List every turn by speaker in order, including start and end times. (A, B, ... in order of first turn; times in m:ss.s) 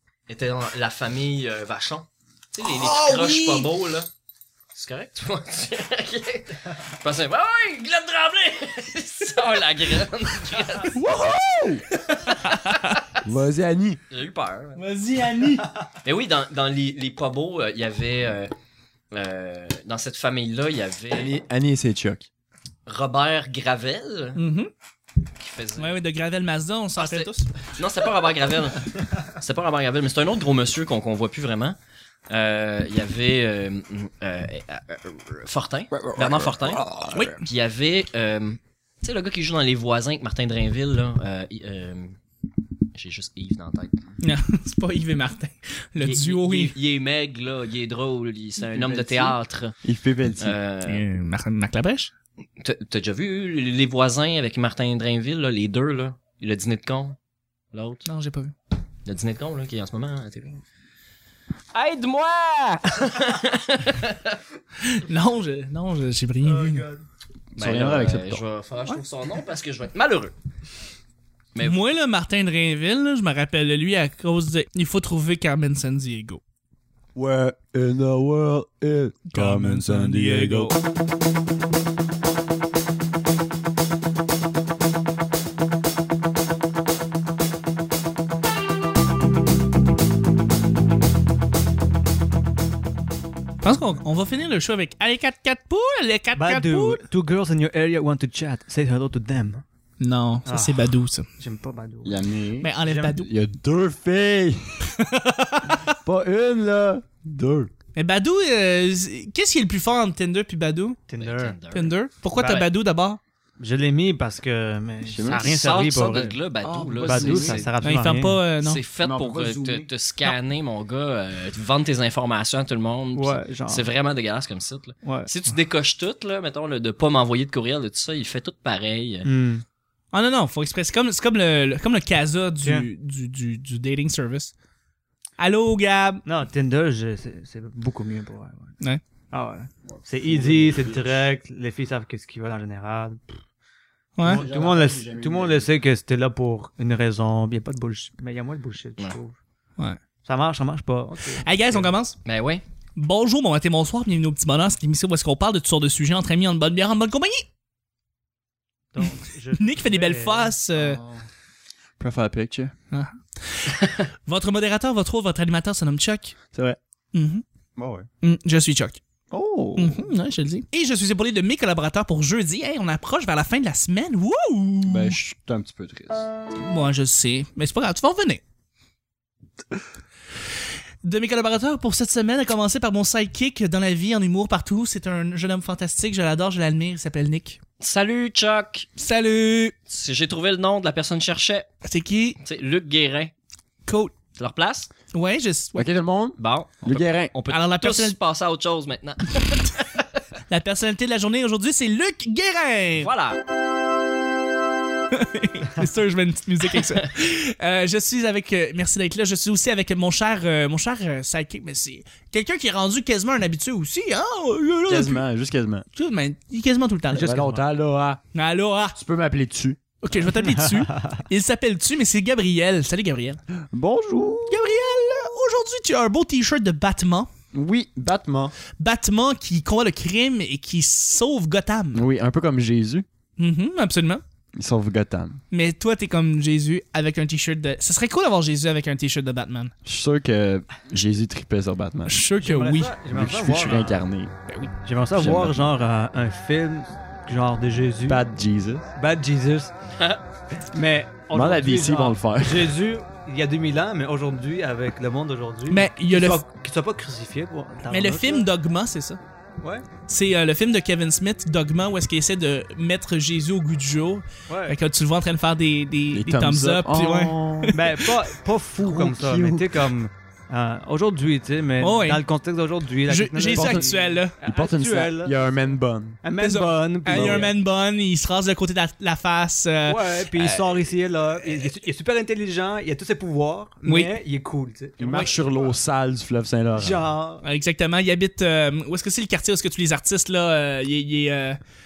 0:00.3-0:04.1 A
0:02.6-0:03.7 B
0:04.7-0:11.1 A
0:11.0-0:11.8 C
0:12.0-0:12.9 A
0:12.4-0:13.0 B
0:13.2-0:14.0 C
0:14.1-0:14.8 A
0:14.8-0:15.7 B
0:16.0-0:18.5 A
0:19.1-0:21.3 A
0:21.1-0:22.3 C
0:22.8-0:24.4 A
0:24.3-0:24.7 B
0:25.4-0:26.0 A
0:25.8-0:27.5 B
0:27.0-0:31.8 A
0:32.3-0:36.8 A
0:35.9-0:37.4 C
0:37.1-0:37.4 B
0:37.4-0:42.2 A
0:42.9-0:44.0 A
0:44.2-0:46.8 B
0:46.0-0:49.7 A
0:48.7-0:50.6 C
0:50.4-0:51.0 A
0:50.8-0:52.1 B
0:52.6-0:57.2 A
0:57.7-0:58.0 A
0:58.0-0:58.5 B
0:59.0-1:00.6 A
1:01.7-1:04.4 A
1:04.8-1:06.9 B
1:06.4-1:07.0 D
1:07.6-1:08.4 C
1:07.6-1:10.3 A
1:11.5-1:11.8 A
1:11.6-1:16.4 B
1:17.1-1:20.8 C
1:19.3-1:20.8 B
1:33.6-1:37.0 B
1:36.4-1:39.6 D
1:40.0-1:41.2 B
1:40.4-1:42.2 D
1:42.0-1:44.9 C
1:42.6-1:43.3 B
1:42.8-1:43.1 D
1:44.9-1:45.9 B
1:45.9-1:47.7 C
1:48.0-1:51.0 B
1:51.1-1:51.6 D
1:51.2-1:52.6 A
1:51.7-1:53.2 B
1:53.6-1:56.4 D
1:55.0-1:55.5 C
1:55.3-1:57.7 A
1:56.6-1:58.8 B
1:57.0-1:58.4 D
1:58.6-2:09.3 A
1:59.0-1:59.9 C
2:03.1-2:03.9 D
2:05.0-2:05.3 D
2:09.2-2:09.6 D
2:10.1-2:14.5 B
2:15.4-2:16.2 B
2:16.2-2:18.7 D
2:19.3-2:23.4 D
2:19.9-2:21.1 C
2:24.2-2:24.4 B
2:24.2-2:29.4 D
2:24.2-2:25.7 C
2:30.2-2:31.9 D
2:31.4-2:32.2 B
2:32.2-2:32.6 A
2:33.0-2:37.4 B
2:38.9-2:41.2 D
2:39.0-2:41.0 B
2:42.0-2:42.7 C
2:42.9-2:43.7 B
2:44.2-2:46.3 B
2:46.5-2:46.8 C
2:47.1-2:47.4 B
2:47.8-2:48.1 C
2:48.2-2:49.0 B
2:49.3-2:50.1 C
2:49.8-2:55.2 B
2:54.9-2:56.3 C
2:56.6-2:58.4 B
3:01.0-3:07.6 B
3:07.8-3:08.9 A
3:09.0-3:09.7 B
3:09.9-3:11.7 A
3:11.8-3:12.4 B
3:12.4-3:13.3 A
3:13.8-3:14.1 B
3:14.4-3:14.9 A
3:15.1-3:15.8 B
3:15.7-3:17.3 C
3:16.4-3:20.1 A
3:17.5-3:18.2 B
3:20.5-3:23.1 B
3:23.0-3:23.4 A
3:25.1-3:35.2 B
3:34.9-3:35.8 C
3:35.9-3:37.4 B
3:37.1-3:38.2 C
3:37.2-3:37.6 D
3:38.3-3:39.0 B
3:39.0-3:39.8 C
3:40.0-3:43.4 B
3:43.7-3:44.6 C
3:44.5-3:47.3 B
3:47.5-3:48.5 C
3:48.8-3:52.1 B
3:51.9-3:53.0 C
3:53.4-3:54.2 B
3:54.6-3:55.4 C
3:55.5-3:59.7 B
3:59.8-4:02.2 C
4:02.0-4:03.0 B
4:02.4-4:04.0 D
4:03.1-4:04.3 C
4:03.5-4:03.8 B
4:04.5-4:04.7 B
4:04.8-4:08.2 D
4:05.2-4:05.5 A
4:08.1-4:08.9 C
4:08.9-4:09.7 D
4:10.6-4:18.5 D
4:11.3-4:12.7 C
4:15.7-4:16.4 B
4:17.9-4:19.2 B
4:19.6-4:19.9 D
4:20.1-4:28.0 B
4:24.5-4:24.8 D
4:26.1-4:27.8 C
4:27.7-4:35.4 D
4:28.8-4:29.9 C
4:31.8-4:32.2 B
4:33.1-4:34.3 B
4:33.5-4:36.2 C
4:36.2-4:37.5 D
4:36.4-4:40.7 B
4:37.1-4:37.5 C
4:39.8-4:45.6 D
4:43.8-4:44.1 B
4:45.0-4:47.1 C
4:46.7-4:47.4 D
4:47.4-4:51.6 B